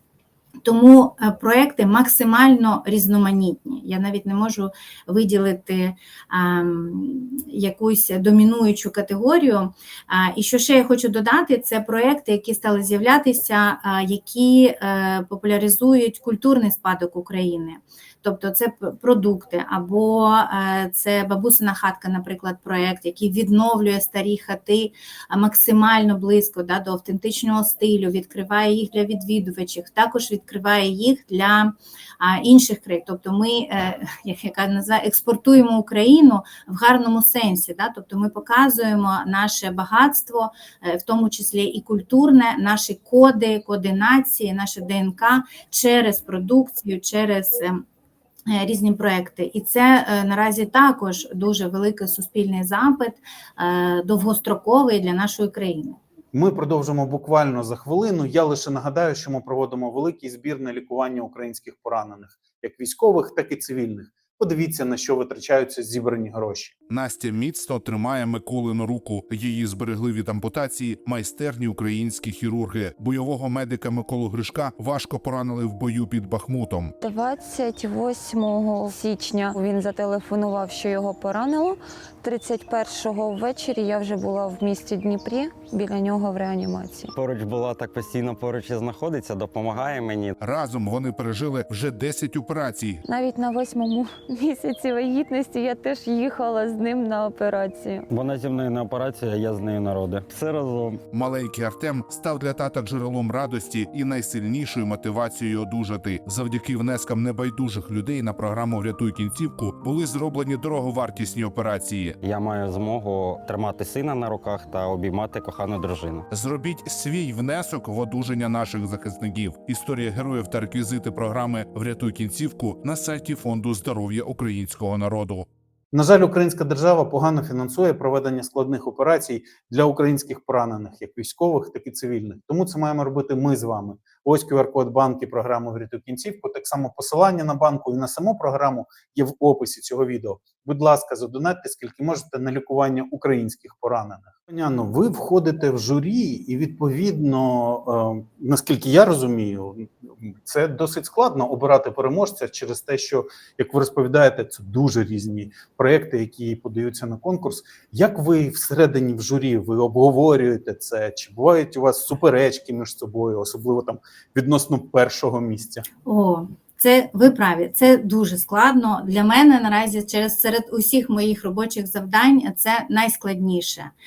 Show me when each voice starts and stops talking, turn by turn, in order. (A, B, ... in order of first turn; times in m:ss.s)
0:00.6-0:47.8 A
0:48.5-0:56.0 A
0:56.3-1:06.7 B
1:06.9-1:17.0 C
1:17.0-1:27.1 D
1:27.2-1:30.4 E
1:30.4-1:33.0 C
1:33.0-1:38.0 D
1:38.1-1:41.0 E
1:41.1-1:52.2 C
1:52.2-1:56.3 E
1:56.3-2:05.5 C
2:05.9-2:45.8 B
2:46.0-2:53.9 A